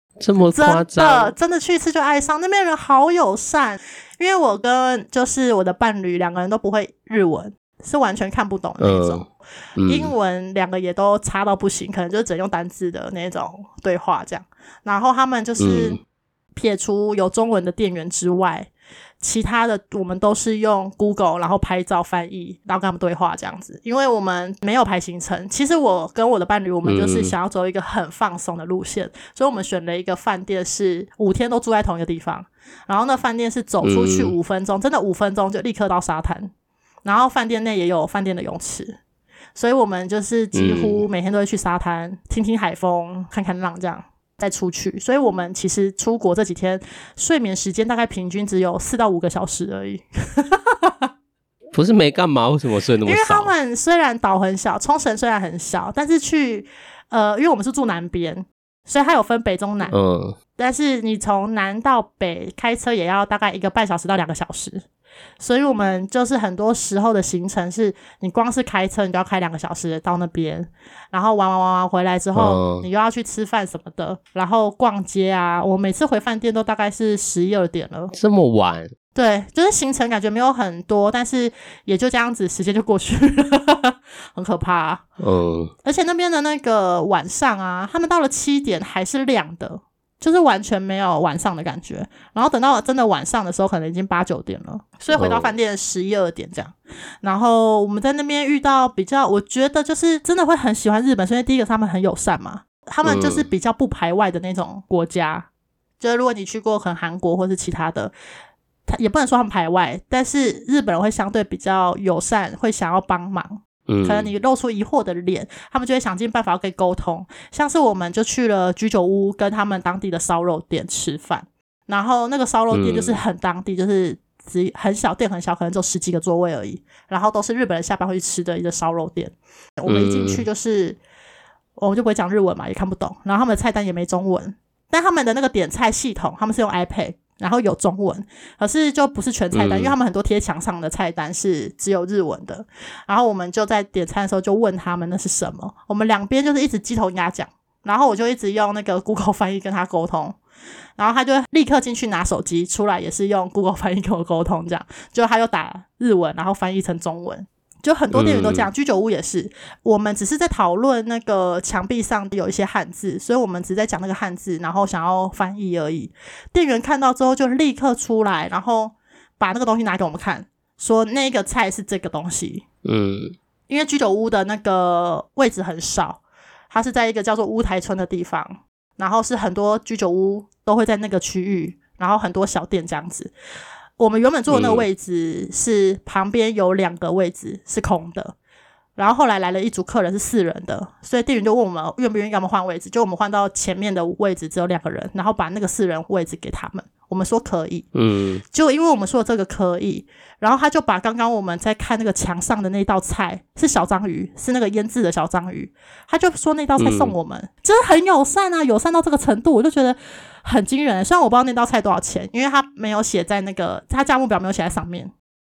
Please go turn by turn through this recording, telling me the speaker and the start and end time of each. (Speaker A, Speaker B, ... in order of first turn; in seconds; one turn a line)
Speaker A: 0.2-1.3
Speaker B: 0.5-9.3
Speaker A: 8.8-9.3
Speaker A: 9.8-10.1
Speaker B: 9.9-16.0
Speaker A: 15.6-16.0
Speaker B: 16.6-18.7
Speaker B: 19.2-36.5
Speaker A: 26.8-27.3
Speaker A: 33.8-34.3
Speaker B: 37.0-39.0
Speaker B: 39.5-51.1
Speaker A: 40.5-41.0
Speaker A: 51.7-53.5
Speaker B: 53.0-59.9
Speaker A: 59.9-60.4
Speaker B: 60.6-64.8
Speaker B: 65.4-78.1
Speaker A: 72.3-72.9
Speaker A: 78.1-78.9
Speaker B: 79.2-85.0
Speaker A: 85.2-85.7
Speaker B: 85.8-105.5
Speaker A: 95.1-95.5
Speaker A: 103.0-103.5
Speaker B: 106.0-108.1
Speaker B: 108.9-131.0
Speaker A: 113.9-114.3
Speaker A: 122.7-123.2
Speaker A: 129.9-130.5
Speaker B: 131.8-150.4
Speaker A: 139.5-140.0
Speaker B: 151.0-172.6
Speaker A: 158.1-158.7
Speaker A: 172.8-173.3
Speaker B: 173.7-183.3
Speaker B: 184.0-188.4
Speaker A: 184.5-184.9
Speaker B: 189.0-197.9
Speaker A: 197.9-198.4
Speaker B: 198.4-215.1
Speaker A: 206.8-207.2